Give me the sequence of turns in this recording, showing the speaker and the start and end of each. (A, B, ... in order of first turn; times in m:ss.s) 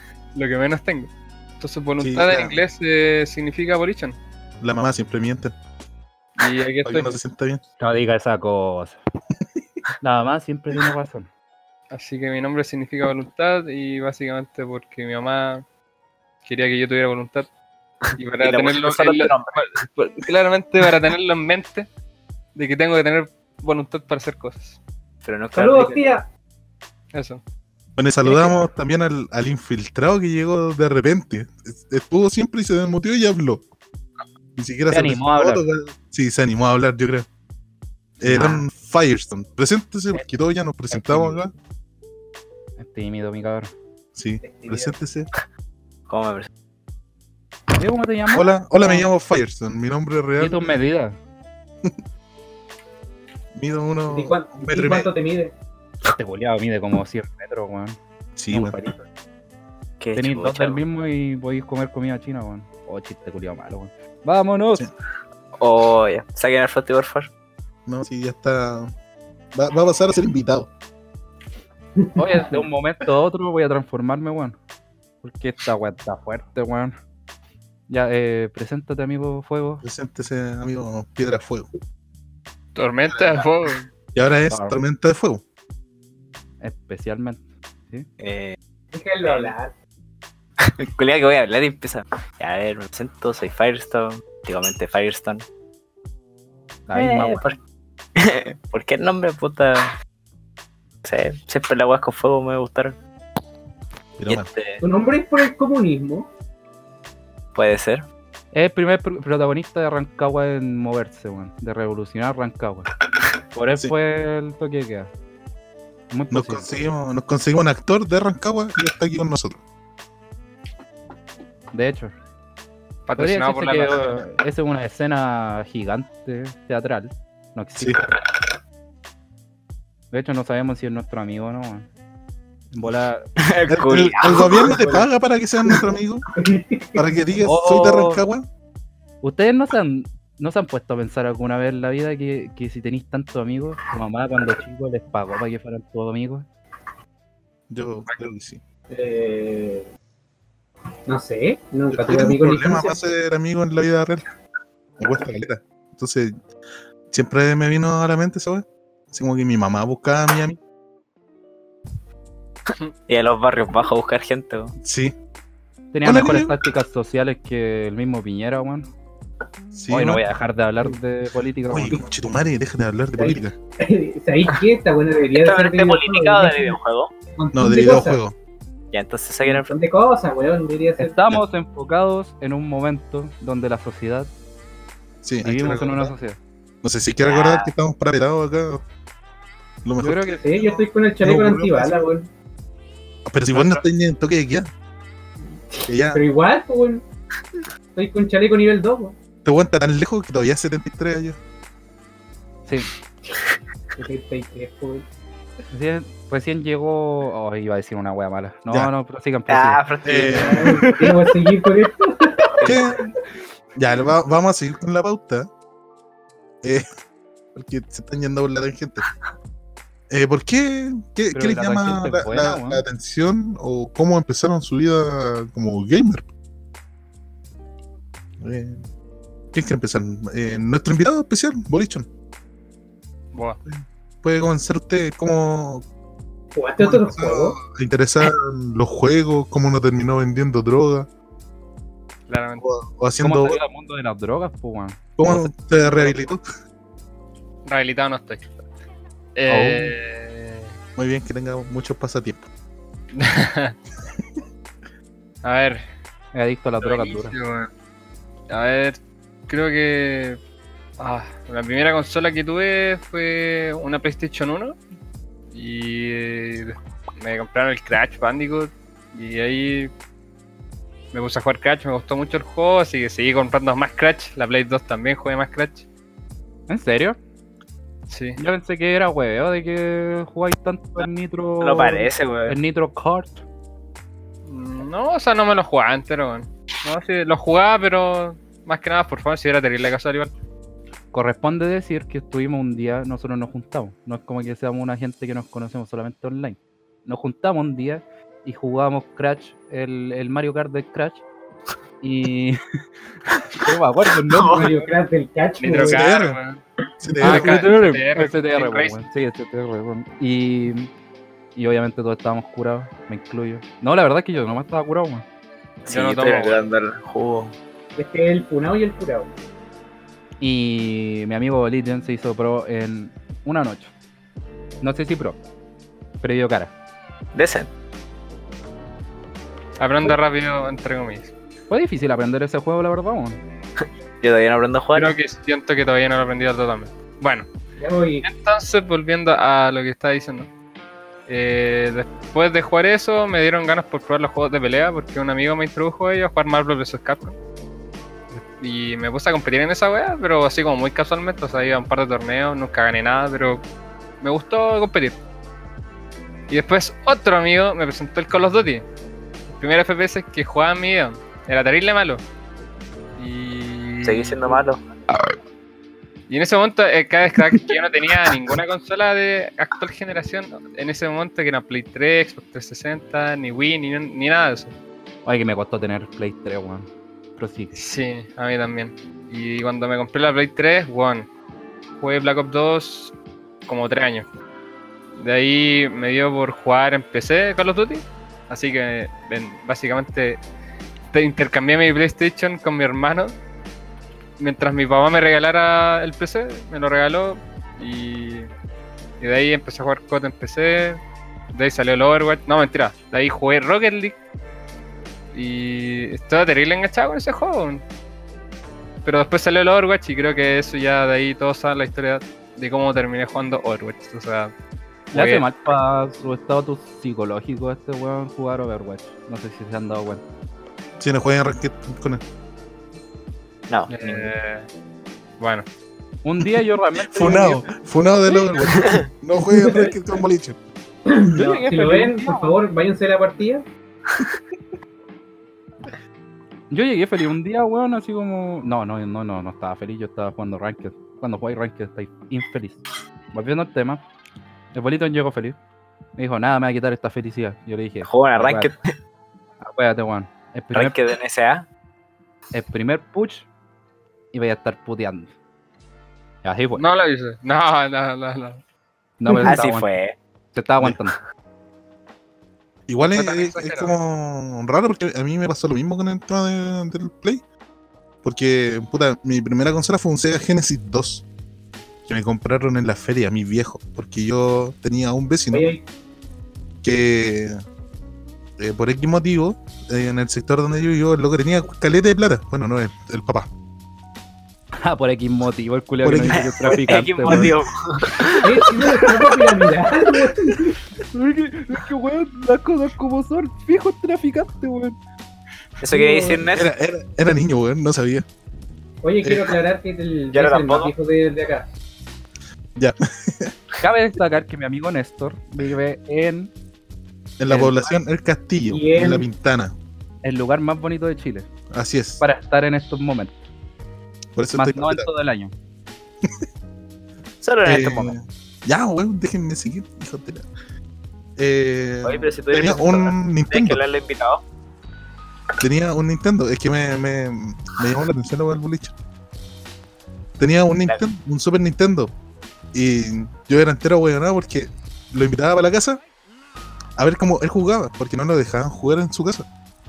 0:00.3-0:04.2 A
0:02.0-0:02.6 B
0:04.6-0:05.5 B
0:06.4-0:07.2 A
0:06.8-0:07.6 B
0:07.8-0:09.0 C
0:10.0-0:11.3 C
0:11.9-0:15.6 A
0:16.4-0:17.5 A
0:18.2-0:21.9 A
0:18.4-0:19.8 D
0:22.6-0:24.8 A
0:25.2-0:26.0 D
0:25.5-0:26.3 E
0:27.1-0:27.4 A
0:28.0-0:33.6 B
0:34.6-0:37.3 B
0:34.9-0:35.7 C
0:38.2-0:41.5 B
0:38.2-0:38.6 C
0:40.9-0:41.4 C
0:42.8-0:43.7 C
0:44.2-0:45.3 B
0:44.4-0:45.0 E
0:46.1-0:46.5 D
0:47.8-0:49.1 C
0:48.3-0:50.6 B
0:50.4-0:51.2 C
0:53.5-0:55.1 B
0:54.1-0:55.6 E
0:56.1-0:58.0 C
0:58.4-0:58.8 B
0:58.5-0:59.0 C
1:00.0-1:00.8 D
1:00.2-1:04.8 C
1:05.6-1:07.3 D
1:07.9-1:08.9 B
1:09.5-1:10.7 B
1:12.0-1:12.6 E
1:12.2-1:14.6 C
1:15.2-1:17.0 C
1:17.9-1:19.8 C
1:19.8-1:21.7 B
1:22.8-1:23.9 A
1:24.1-1:25.4 B
1:24.5-1:24.8 C
1:26.6-1:28.1 C
1:28.2-1:28.6 D
1:28.9-1:29.7 E
1:29.2-1:29.6 D
1:30.6-1:35.4 D
1:36.9-1:37.5 C
1:36.9-1:37.6 D
1:38.2-1:39.9 D
1:41.0-1:43.0 D
1:44.2-1:44.5 B
1:44.3-1:44.8 D
1:44.8-1:46.3 E
1:47.6-1:48.1 D
1:48.5-1:52.9 C
1:53.5-1:55.1 C
1:56.1-1:56.7 C
1:56.3-1:59.6 B
2:01.7-2:02.1 C
2:03.1-2:04.2 A
2:03.2-2:08.0 C
2:10.1-2:11.9 C
2:12.7-2:13.3 C
2:13.4-2:14.8 D
2:13.7-2:16.3 B
2:14.3-2:15.1 E
2:16.4-2:17.0 E
2:17.0-2:18.5 B
2:17.4-2:18.3 C
2:19.2-2:26.5 C
2:27.7-2:28.6 B
2:28.9-2:29.9 E
2:31.1-2:33.0 E
2:31.9-2:34.2 B
2:35.0-2:36.4 B
2:37.1-2:40.6 B
2:43.1-2:44.7 D
2:44.8-2:45.2 B
2:45.9-2:48.9 C
2:46.0-2:46.6 B
2:49.7-2:50.2 B
2:49.9-2:52.0 C
2:51.7-2:53.6 B
2:53.2-2:56.8 E
2:55.3-2:57.1 D
2:57.4-2:58.2 E
2:57.5-2:58.4 B
2:58.9-2:59.8 D
2:59.4-3:01.2 E
3:01.0-3:04.3 C
3:05.2-3:06.1 B
3:05.4-3:06.4 C
3:06.8-3:08.8 B
3:07.2-3:07.7 D
3:09.8-3:12.1 B
3:10.0-3:10.4 C
3:10.4-3:12.3 E
3:13.2-3:14.7 B
3:13.5-3:13.8 C
3:15.5-3:17.0 E
3:15.9-3:16.2 B
3:18.0-3:19.2 E
3:19.4-3:21.4 B
3:24.0-3:25.1 E
3:25.7-3:29.8 C
3:29.5-3:30.9 D
3:30.0-3:30.7 B
3:30.3-3:32.8 E
3:32.6-3:32.8 D
3:32.6-3:33.1 B
3:33.8-3:35.5 B
3:37.5-3:39.1 B
3:40.1-3:46.3 B
3:41.3-3:42.8 C
3:48.4-3:48.9 B
3:49.5-3:52.1 B
3:53.3-3:53.6 A
3:53.7-3:55.8 B
3:56.6-3:57.6 E
3:56.8-4:01.1 B
4:02.3-4:02.7 A
4:02.6-4:03.6 B
4:03.2-4:05.0 C
4:05.2-4:06.4 B
4:07.7-4:08.5 A
4:09.4-4:10.7 A
4:09.5-4:09.9 B
4:11.0-4:12.5 B
4:13.1-4:13.8 A
4:15.4-4:15.8 A
4:16.3-4:17.4 C
4:16.8-4:17.7 A
4:18.5-4:20.4 A
4:21.0-4:24.8 A
4:25.5-4:29.9 A
4:31.1-4:35.9 A
4:36.7-4:37.2 C
4:38.1-4:38.4 A
4:38.4-4:43.4 C
4:41.6-4:42.6 D
4:44.5-4:50.3 A
4:51.1-5:01.2 C
5:02.0-5:02.6 C
5:03.6-5:04.9 C
5:04.3-5:04.7 D
5:04.4-5:06.0 E
5:05.6-5:06.6 A
5:05.8-5:06.4 B
5:07.0-5:07.7 B
5:07.2-5:09.0 A
5:07.2-5:10.9 C
5:11.6-5:15.2 C
5:15.8-5:17.6 D
5:15.9-5:16.6 A
5:18.0-5:19.3 E
5:20.4-5:23.9 C
5:24.8-5:25.4 C
5:26.2-5:26.7 C
5:27.4-5:27.7 D
5:29.8-5:31.3 A
5:31.7-5:33.4 C
5:34.2-5:35.2 D
5:34.9-5:37.5 A
5:37.8-5:38.3 E
5:38.2-5:40.5 A
5:41.3-5:47.4 A
5:48.3-5:53.6 A
5:54.2-5:55.2 A
5:56.5-5:58.9 A
5:59.5-6:02.2 A
6:03.2-6:04.6 A
6:04.0-6:04.8 D
6:06.3-6:14.7 A
6:15.2-6:17.7 C
6:17.7-6:21.3 A
6:22.0-6:23.2 A
6:23.7-6:24.3 A
6:25.2-6:30.4 A
6:31.1-6:33.4 A
6:34.4-6:38.5 A
6:39.2-6:41.0 A
6:41.5-6:44.2 A
6:45.3-6:47.8 A
6:49.0-6:54.5 A
6:55.1-6:55.5 A
6:55.1-7:00.2 C
7:01.0-7:02.2 B
7:03.7-7:04.3 D
7:03.9-7:04.7 A
7:05.4-7:05.7 A
7:06.2-7:07.7 C
7:07.0-7:10.6 B
7:09.5-7:09.9 E
7:11.1-7:13.6 E
7:11.3-7:12.6 C
7:16.7-7:24.0 C
7:24.7-7:25.6 C
7:26.2-7:28.7 C
7:28.0-7:28.9 D
7:29.6-7:31.0 C
7:30.7-7:31.7 D
7:32.5-7:33.5 C
7:34.3-7:35.3 C
7:36.4-7:36.8 C
7:36.8-7:38.6 A
7:39.2-7:39.9 C
7:39.3-7:39.6 E
7:39.4-7:40.2 D
7:40.5-7:41.2 C
7:42.9-7:47.4 B
7:43.1-7:43.9 A
7:48.2-7:51.2 B
7:52.1-7:55.7 B
7:55.5-7:55.8 E
7:56.8-7:57.6 B
7:58.6-8:03.5 B
8:04.8-8:07.6 C
8:06.0-8:07.6 B
8:06.3-8:09.4 D
8:08.4-8:10.8 E
8:11.1-8:15.0 C
8:15.8-8:16.7 D
8:15.9-8:16.5 E
8:16.5-8:18.3 B
8:19.0-8:21.7 E
8:19.2-8:19.6 B
8:20.3-8:20.9 D
8:22.8-8:23.6 B
8:23.8-8:26.5 C
8:27.4-8:29.8 B
8:27.5-8:27.9 C
8:28.7-8:29.3 E
8:30.2-8:31.5 C
8:31.7-8:32.2 B
8:32.2-8:33.4 C
8:34.4-8:35.1 B
8:34.5-8:35.5 C
8:37.4-8:38.2 D
8:37.6-8:40.5 B
8:41.4-8:43.8 B
8:42.0-8:44.4 D
8:45.6-8:48.9 B
8:50.4-8:52.1 B
8:52.7-8:56.0 B
8:57.0-8:59.5 B